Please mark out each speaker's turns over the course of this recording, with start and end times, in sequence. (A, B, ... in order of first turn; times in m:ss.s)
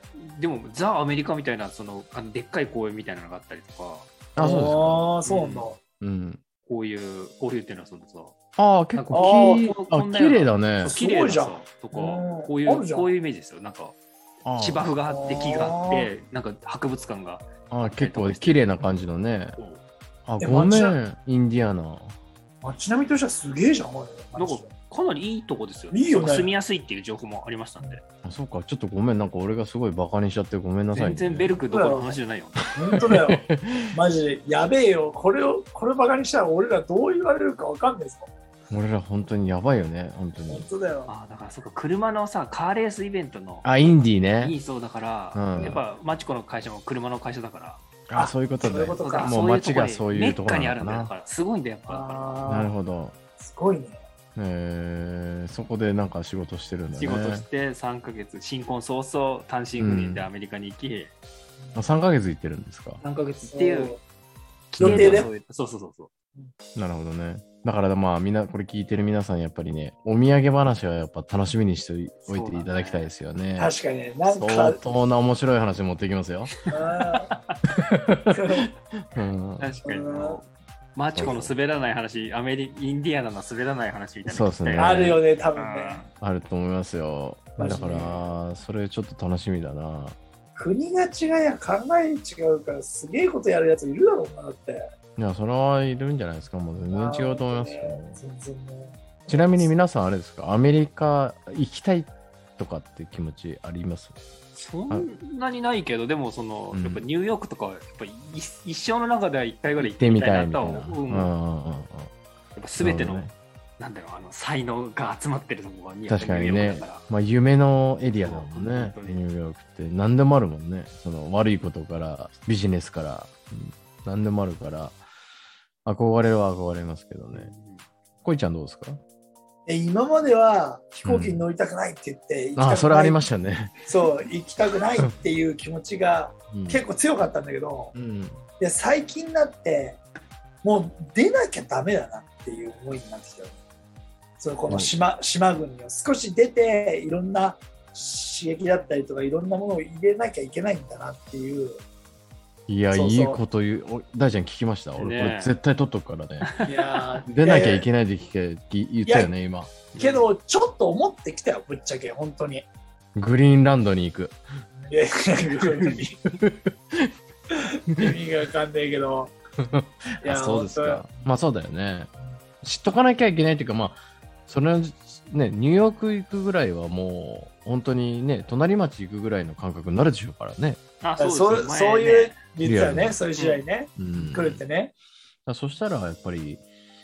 0:00.2-0:04.1 A
0:04.4-0:05.1 B
0:04.4-0:05.8 C
0:05.2-0:05.7 A
0:06.0-0:06.4 B
0:06.7-0:08.3 A
0:08.6-0:10.9 B
0:09.0-0:18.6 A
0:09.1-0:09.7 C
0:10.8-0:13.1 C
0:14.4-0:14.9 B
0:15.1-0:16.1 C
0:17.7-0:19.6 B
0:20.3-0:22.2 B
0:20.4-0:21.0 C
0:22.6-0:24.7 C
0:24.4-0:28.0 A
0:25.9-0:26.5 C
0:28.2-0:31.6 B
0:30.9-0:32.7 A
0:31.6-0:32.2 C
0:32.7-0:38.3 C
0:33.1-0:33.9 B
0:38.7-0:40.7 B
0:40.5-0:41.1 C
0:41.1-0:47.8 A
0:43.6-0:44.6 B
0:45.3-0:45.8 B
0:48.1-0:51.1 B
0:48.2-0:49.4 C
0:49.0-0:52.3 A
0:51.9-0:52.7 C
0:52.4-0:53.2 B
0:53.4-0:54.0 C
0:54.4-0:57.4 B
0:57.0-1:01.1 A
0:59.8-1:00.3 B
1:01.6-1:01.8 C
1:01.8-1:03.0 B
1:03.0-1:04.0 A
1:03.5-1:04.0 C
1:04.7-1:06.1 A
1:04.8-1:05.3 C
1:04.8-1:05.3 B
1:06.8-1:13.7 B
1:12.3-1:13.1 A
1:13.6-1:14.8 C
1:14.3-1:16.5 B
1:16.5-1:17.6 A
1:16.7-1:17.3 C
1:18.1-1:18.3 B
1:18.3-1:18.7 C
1:19.1-1:19.7 B
1:19.6-1:25.0 A
1:19.8-1:20.4 C
1:21.2-1:21.5 B
1:21.2-1:21.5 C
1:24.2-1:25.2 B
1:24.8-1:26.0 C
1:25.6-1:26.1 A
1:26.2-1:30.2 B
1:27.6-1:28.2 C
1:30.6-1:34.9 C
1:35.2-1:38.2 B
1:36.9-1:39.7 C
1:39.3-1:44.2 B
1:44.5-1:51.3 A
1:46.7-1:47.0 B
1:49.8-1:52.1 B
1:52.6-1:53.3 A
1:52.8-1:53.3 B
1:53.8-1:57.1 A
1:56.1-2:05.0 B
1:58.1-1:59.2 A
2:05.8-2:07.5 B
2:07.3-2:07.9 A
2:08.2-2:09.0 B
2:09.7-2:13.2 C
2:11.0-2:11.4 B
2:12.6-2:13.8 B
2:13.8-2:17.9 C
2:16.5-2:16.8 B
2:17.9-2:18.4 B
2:18.6-2:20.0 C
2:20.6-2:23.6 C
2:24.4-2:31.8 C
2:24.7-2:24.9 B
2:32.7-2:36.5 B
2:32.9-2:33.4 C
2:35.0-2:35.6 A
2:36.4-2:36.7 A
2:36.6-2:37.9 C
2:37.3-2:39.8 B
2:39.0-2:39.3 C
2:39.9-2:40.3 A
2:40.0-2:42.7 C
2:43.2-2:44.4 B
2:44.9-2:46.2 C
2:45.4-2:46.0 A
2:46.4-2:47.1 B
2:47.9-2:49.3 C
2:49.7-2:52.1 B
2:50.2-2:51.0 C
2:52.6-3:00.8 B
3:01.0-3:02.4 A
3:01.2-3:04.9 C
3:02.6-3:03.2 B
3:03.4-3:03.6 A
3:04.0-3:04.6 B
3:05.5-3:06.6 B